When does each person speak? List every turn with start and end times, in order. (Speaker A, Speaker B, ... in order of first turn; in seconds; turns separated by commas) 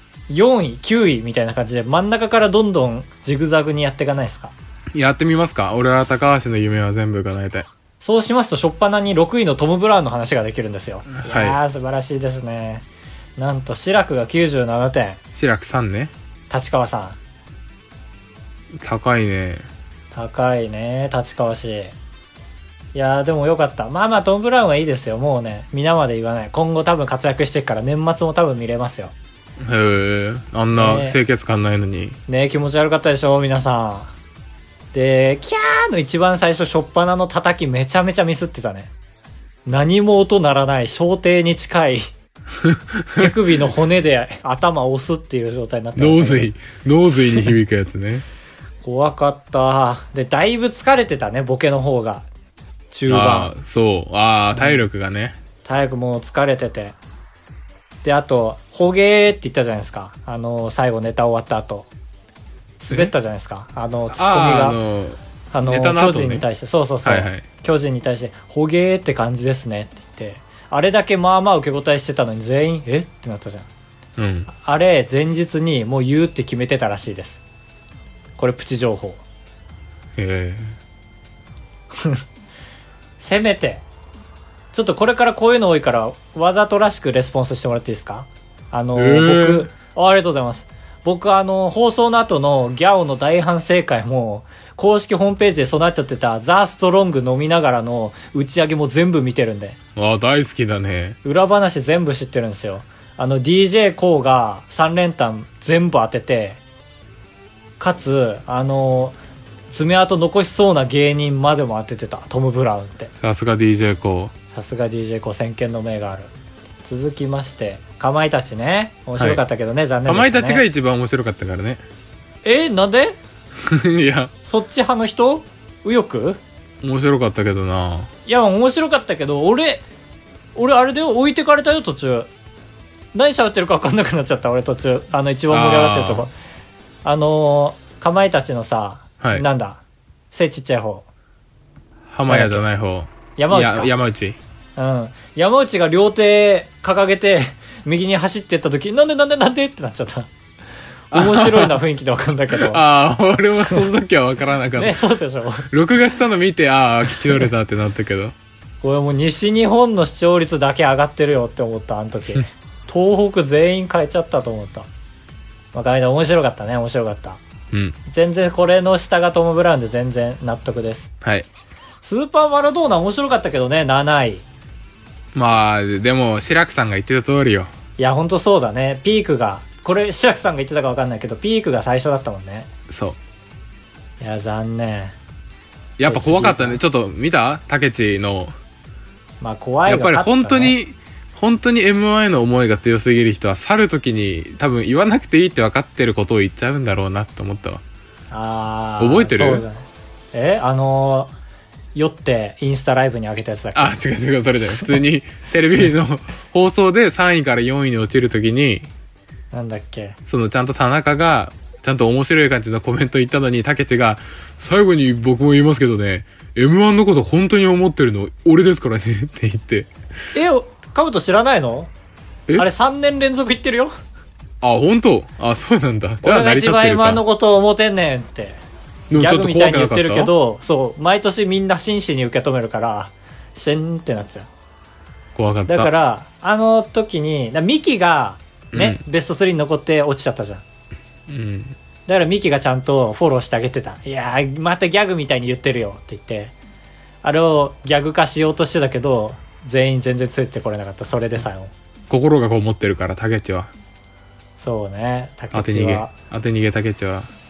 Speaker A: 0.3-4.5, Speaker B: 4.9-7.7, Speaker A: 8.0-12.8, Speaker B: 11.1-11.6, Speaker A: 13.4-15.2, Speaker B: 15.3-16.1, Speaker A: 16.5-17.2, Speaker B: 18.7-19.7, Speaker A: 20.1-21.9, Speaker A: 22.9-29.1, Speaker B: 29.6-32.2, Speaker A: 30.7-31.2, Speaker A: 32.3-34.1, Speaker A: 34.9-38.9, Speaker A: 39.6-42.1, Speaker B: 42.6-43.3, Speaker A: 43.1-46.5, Speaker B: 46.0-48.2, Speaker A: 48.8-52.3, Speaker A: 52.9-53.5, Speaker B: 53.1-55.4, Speaker A: 54.5-54.8, Speaker A: 55.6-57.0, Speaker A: 58.0-61.9, Speaker A: 62.8-64.8, Speaker B: 64.1-66.4, Speaker A: 65.5-73.7, Speaker B: 67.0-67.5, Speaker B: 74.2-74.5, Speaker A: 74.5-77.4, Speaker A: 78.4-79.2, Speaker B: 80.2-80.8, Speaker A: 81.9-82.2, Speaker A: 83.2-83.8, Speaker A: 84.7-99.8, Speaker B: 88.9-89.7, Speaker B: 100.0-101.2, Speaker A: 101.2-106.6, Speaker A: 107.8-109.2, Speaker A: 109.7-113.1, Speaker B: 113.2-114.3, Speaker A: 114.5-116.3, Speaker A: 116.8-120.6, Speaker B: 120.0-121.8, Speaker A: 122.4-123.2, Speaker B: 123.6-124.3, Speaker A: 124.4-126.4, Speaker B: 126.8-128.1, Speaker A: 128.2-129.8, Speaker A: 130.5-132.3, Speaker A: 133.1-136.3, Speaker B: 135.5-136.3, Speaker A: 137.0-141.1, Speaker B: 142.1-144.4, Speaker A: 142.3-142.6, Speaker A: 143.3-143.9, Speaker A: 144.8-150.3, Speaker A: 151.1-152.8, Speaker B: 151.1-151.8, Speaker B: 152.5-155.0, Speaker A: 154.8-155.7, Speaker B: 155.7-158.3, Speaker A: 158.8-164.9, Speaker A: 165.7-167.4, Speaker A: 168.1-171.1, Speaker B: 171.2-171.5, Speaker A: 172.0-174.4, Speaker B: 175.3-177.7, Speaker A: 178.0-182.7, Speaker B: 182.9-183.2, Speaker A: 184.2-185.1, Speaker B: 186.0-188.5, Speaker A: 186.0-186.8, Speaker A: 189.4-190.8, Speaker B: 189.8-197.8, Speaker A: 198.3-201.3, Speaker B: 199.0-199.6, Speaker A: 201.9-203.9, Speaker B: 203.7-208.9, Speaker A: 209.5-210.2, Speaker B: 210.2-219.9, Speaker A: 220.3-221.9, Speaker A: 222.6-223.9, Speaker B: 224.6-227.2, Speaker A: 226.2-228.6, Speaker B: 229.1-230.3, Speaker A: 229.1-234.5, Speaker B: 235.3-235.9, Speaker A: 235.7-240.6, Speaker B: 238.7-239.0, Speaker B: 241.3-241.8, Speaker A: 242.1-246.5, Speaker A: 247.2-251.7, Speaker B: 252.1-253.7, Speaker A: 254.6-256.1, Speaker B: 255.5-257.3